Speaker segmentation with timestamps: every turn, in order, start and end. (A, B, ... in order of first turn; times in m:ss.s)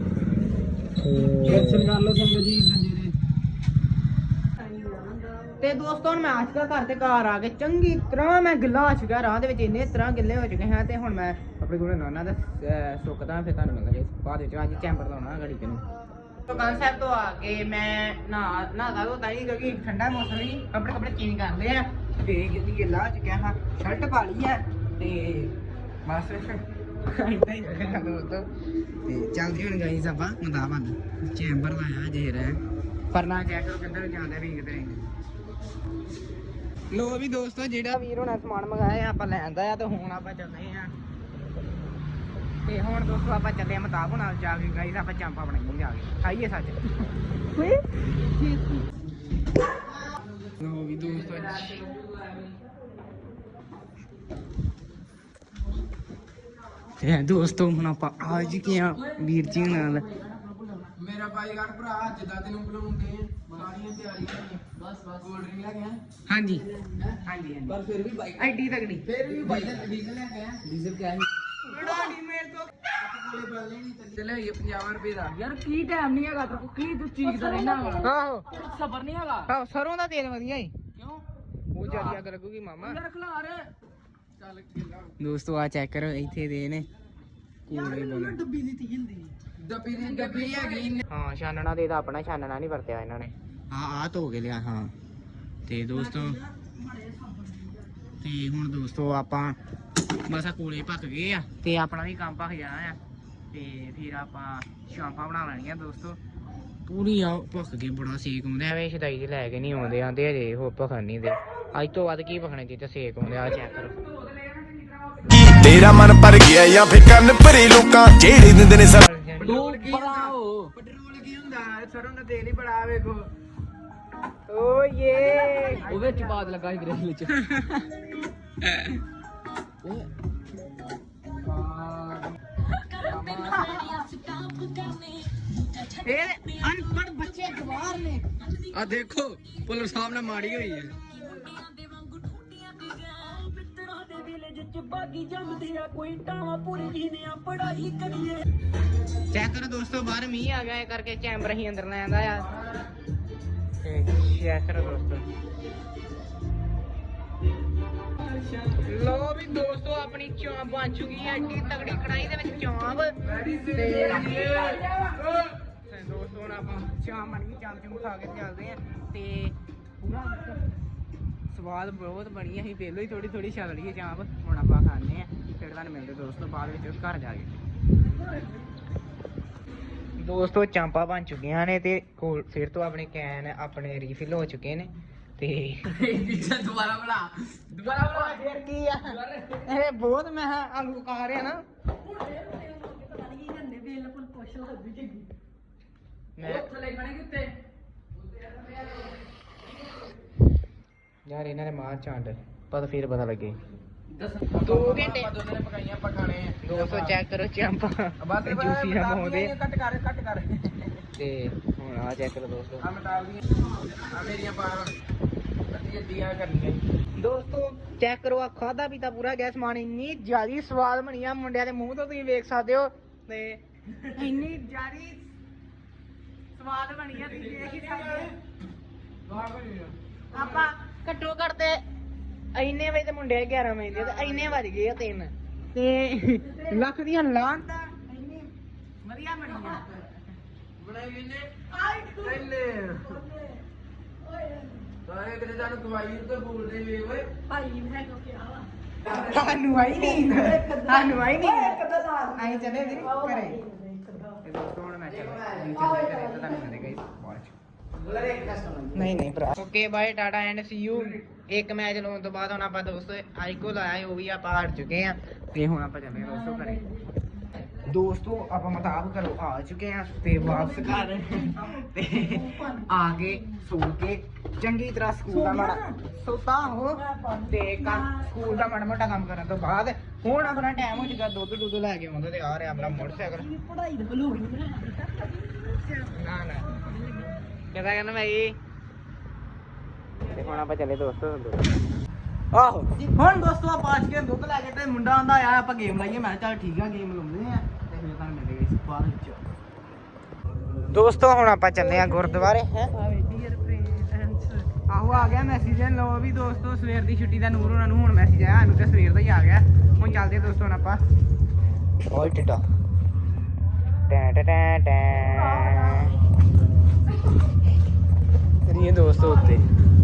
0:01.0-0:01.9 A
0:01.4-0:03.1 B
0:05.6-0:15.8 A
0:16.5-0:25.5 A
0:26.0-0:28.5 A
0:29.0-0:32.6 A
0:33.1-0:35.0 A
0:36.9-0:40.9 A
0:42.6-0:46.8 A
0:50.6-0:51.9 A
0:57.0-1:00.8 A
1:00.8-1:06.0 B
1:06.3-1:07.8 A
1:07.7-1:08.4 B
1:08.4-1:09.0 A
1:09.1-1:11.3 B
1:09.4-1:09.7 C
1:11.6-1:12.6 A
1:13.2-1:15.4 B
1:15.4-1:18.0 C
1:16.1-1:18.0 B
1:18.0-1:18.5 A
1:18.6-1:19.3 B
1:18.7-1:19.4 C
1:19.5-1:20.7 A
1:21.7-1:23.0 A
1:21.9-1:22.2 B
1:22.9-1:23.6 B
1:24.4-1:25.1 B
1:25.2-1:26.9 A
1:27.7-1:28.4 A
1:27.7-1:31.0 B
1:30.0-1:30.8 C
1:31.1-1:34.9 A
1:35.7-1:36.4 A
1:38.2-1:39.6 A
1:40.3-1:43.0 A
1:43.5-1:46.2 A
1:46.8-1:54.0 A
1:54.2-1:55.4 B
1:55.3-1:58.9 D
1:58.8-1:59.8 A
1:59.4-2:03.3 B
1:59.4-2:00.4 C
2:04.5-2:05.9 A
2:05.2-2:07.3 B
2:05.9-2:06.4 C
2:07.3-2:07.9 A
2:08.6-2:09.0 A
2:11.4-2:12.3 B
2:12.9-2:15.3 C
2:13.0-2:13.8 B
2:16.0-2:18.2 A
2:18.7-2:21.0 B
2:20.4-2:28.4 C
2:29.3-2:32.5 A
2:33.8-2:35.2 A
2:38.7-2:50.6 A
2:43.3-2:44.8 B
2:51.5-2:57.6 A
3:00.2-3:05.9 A
3:05.9-3:08.2 B
3:07.8-3:11.6 A
3:12.2-3:15.2 C
3:16.4-3:16.7 A
3:16.4-3:17.4 C
3:16.8-3:17.3 B
3:21.2-3:23.6 A
3:24.2-3:27.2 B
3:24.6-3:25.3 A
3:26.6-3:29.5 A
3:28.2-3:31.0 B
3:31.2-3:32.8 A
3:32.8-3:35.0 B
3:35.7-3:36.8 B
3:37.2-3:45.3 A
3:46.5-3:48.3 A
3:49.2-3:49.9 B
3:50.3-3:51.8 A
3:52.5-3:58.4 A
3:54.0-3:54.4 B
3:59.0-4:00.0 A
4:00.8-4:03.2 B
4:05.0-4:07.4 B
4:07.5-4:08.6 C
4:07.6-4:08.5 E
4:09.0-4:13.6 A
4:14.3-4:17.5 A
4:18.0-4:18.9 B
4:18.9-4:26.8 A
4:27.6-4:43.5 A
4:43.6-4:45.1 E
4:44.1-4:44.6 C
4:45.8-4:46.9 A
4:47.7-4:48.6 A
4:50.2-4:51.7 A
4:52.5-4:59.4 A
5:00.9-5:03.0 A
5:03.3-5:03.9 C
5:04.7-5:11.0 A
5:12.1-5:12.6 A
5:14.1-5:16.2 A
5:18.6-5:19.6 A